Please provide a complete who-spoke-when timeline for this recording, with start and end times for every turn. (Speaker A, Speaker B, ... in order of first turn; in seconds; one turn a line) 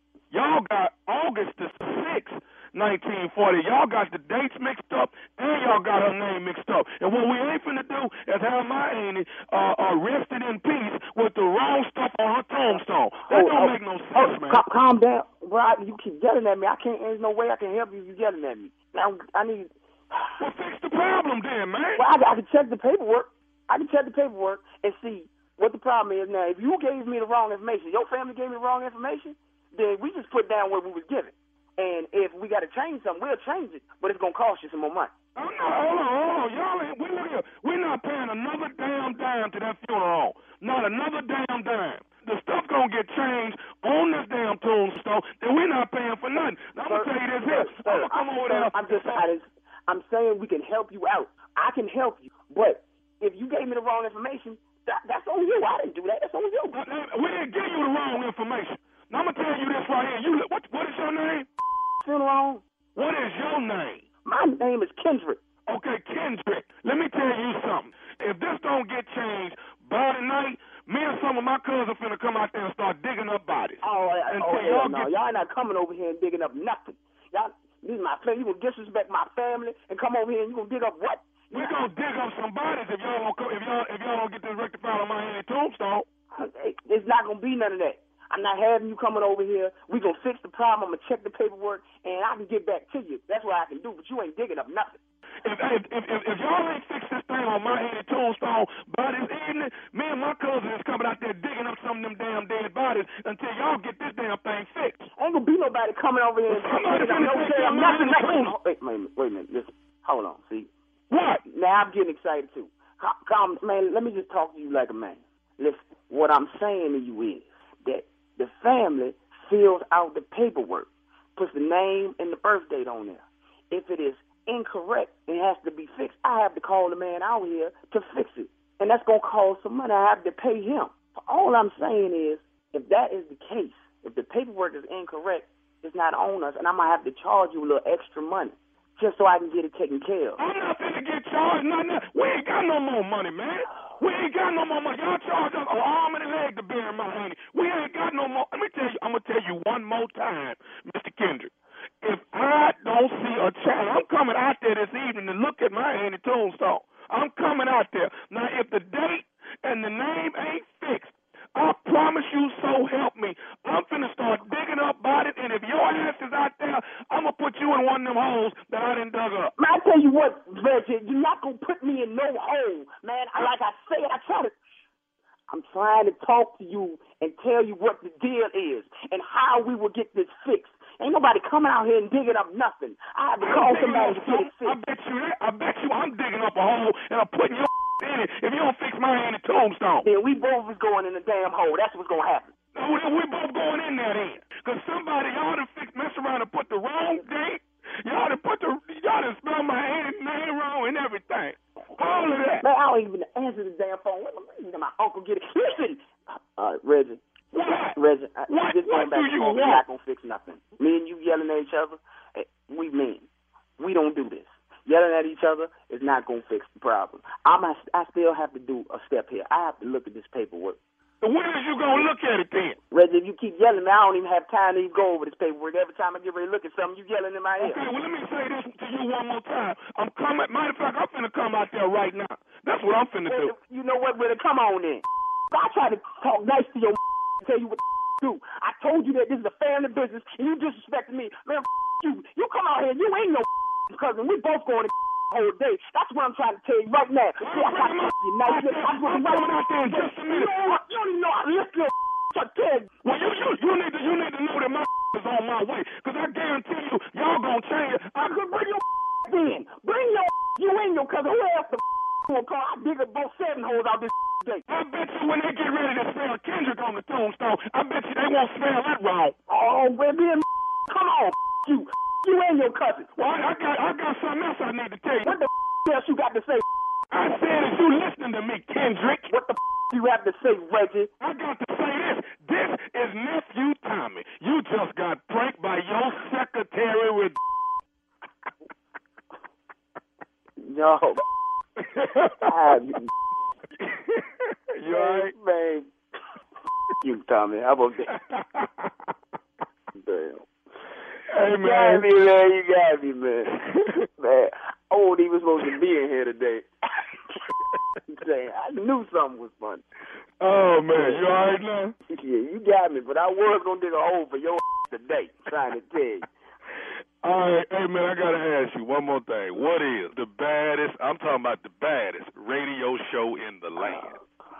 Speaker A: 0.3-14.6
Speaker B: 12.6-20.4
Speaker A: 20.4-22.0
Speaker B: 21.9-35.1
Speaker A: 35.4-49.2
Speaker B: 46.8-56.8
Speaker A: 56.7-61.5
Speaker B: 62.0-62.6
Speaker A: 63.0-64.1
Speaker B: 64.2-65.4
Speaker A: 65.7-75.2
Speaker B: 73.8-81.8
Speaker A: 81.5-86.0
Speaker B: 86.3-95.0
Speaker A: 95.4-105.0
Speaker B: 105.2-110.7
Speaker A: 106.5-108.5
Speaker A: 111.1-111.4
Speaker B: 111.5-140.4
Speaker A: 140.4-151.5
Speaker A: 152.0-169.5
Speaker B: 169.6-174.6
Speaker B: 175.5-184.8
Speaker A: 183.4-190.1
Speaker B: 190.0-192.5
Speaker A: 192.7-202.6
Speaker B: 202.0-213.3
Speaker A: 207.5-209.8
Speaker B: 213.8-220.8
Speaker A: 221.2-222.8
Speaker B: 222.9-227.8
Speaker A: 227.6-233.5
Speaker B: 233.2-252.9
Speaker A: 247.4-250.7
Speaker A: 253.0-258.2
Speaker B: 258.1-264.6
Speaker A: 264.7-269.4
Speaker B: 269.5-273.1
Speaker A: 273.1-275.3
Speaker B: 275.2-276.6
Speaker A: 277.1-279.3
Speaker B: 279.3-281.1
Speaker A: 281.2-287.4
Speaker B: 290.6-291.2
Speaker A: 291.9-292.5
Speaker B: 292.4-293.1
Speaker A: 293.8-294.2
Speaker A: 294.8-295.3
Speaker B: 294.9-295.9
Speaker B: 297.0-298.1
Speaker A: 298.2-298.7
Speaker B: 299.9-300.5
Speaker A: 301.3-302.1
Speaker B: 301.5-306.7
Speaker B: 308.1-309.8
Speaker A: 310.4-311.9
Speaker B: 310.9-311.2
Speaker B: 312.1-316.2
Speaker A: 317.2-324.2
Speaker B: 323.8-324.2